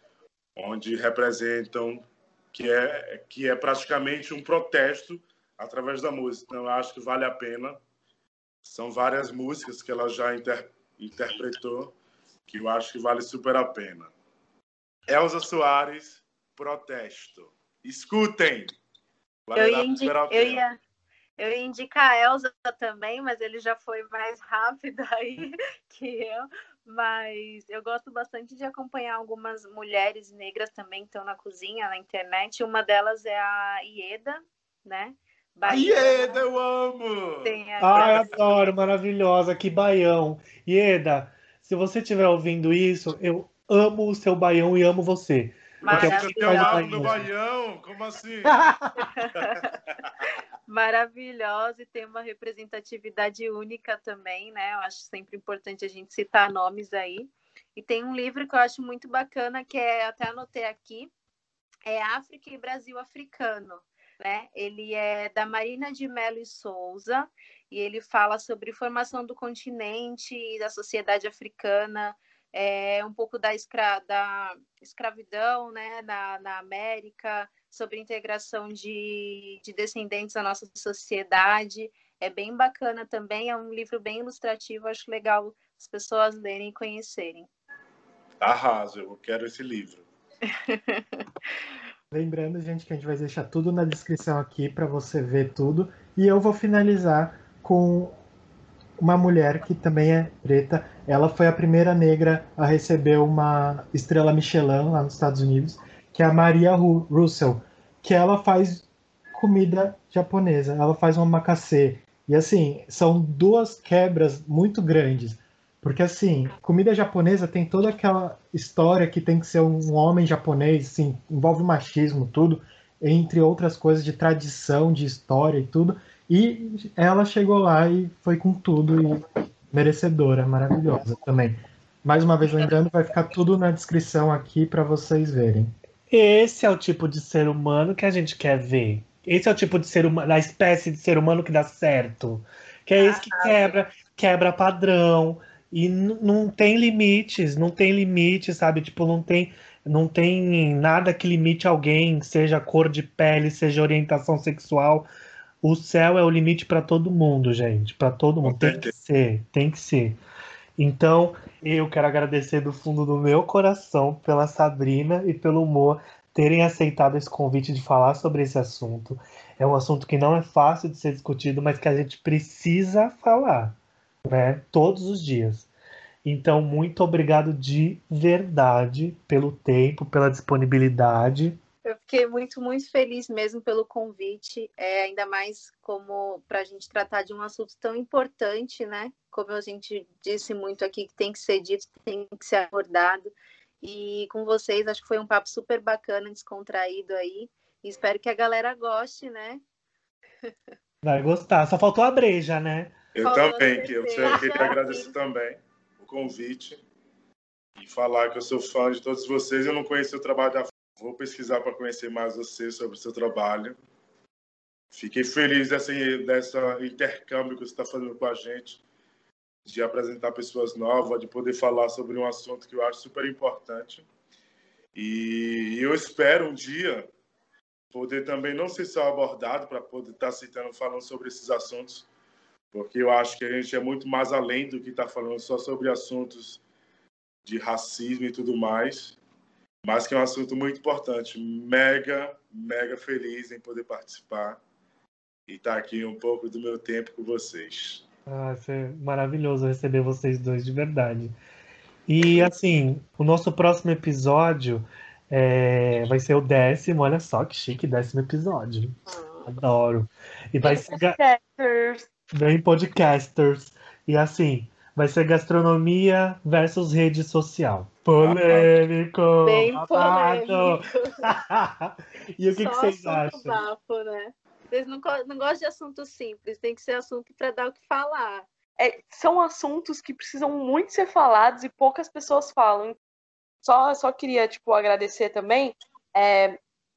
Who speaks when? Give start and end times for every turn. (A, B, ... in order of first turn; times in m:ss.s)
0:00.6-0:07.8 A
0:08.6-0:12.0 A
0:12.5-0:14.1 A
0:15.1-0:18.8 A
0:19.5-0:20.6 A
0:19.6-0:20.8 B
0:21.4-0:36.4 B
0:35.6-0:38.3 A
0:37.4-0:38.2 B
0:37.8-0:47.2 C
0:45.8-0:47.2 B
0:45.9-0:48.6 A
0:48.5-0:49.1 C
0:49.0-0:49.7 B
0:49.5-0:50.3 A
0:50.7-1:01.1 B
1:01.9-1:27.5 B
1:28.4-1:30.0 A
1:30.5-1:31.2 B
1:32.1-1:38.2 D
1:39.0-2:15.7 D
2:16.1-2:35.1 C
2:23.0-2:23.7 B
2:35.6-2:40.2 C
2:38.4-2:38.9 A
2:40.8-2:55.7 C
2:56.2-3:01.6 C
3:01.9-3:19.6 B
3:21.0-3:23.0 C
3:23.2-3:26.8 A
3:23.2-3:25.1 B
3:24.3-3:24.7 C
3:27.8-3:33.8 A
3:34.9-3:38.8 A
3:39.6-3:44.1 A
3:44.9-3:47.1 A
3:47.9-3:52.1 A
3:52.7-3:56.6 A
3:57.4-3:59.2 A
3:59.8-4:04.6 A
4:05.5-4:08.0 A
4:08.3-4:11.3 C
4:12.1-4:21.2 C
4:19.1-4:19.5 B
4:20.6-4:22.1 E
4:22.3-4:33.6 C
4:28.2-4:28.8 A
4:29.4-4:31.2 B
4:32.5-4:38.5 B
4:38.8-4:43.0 E
4:43.6-4:46.6 E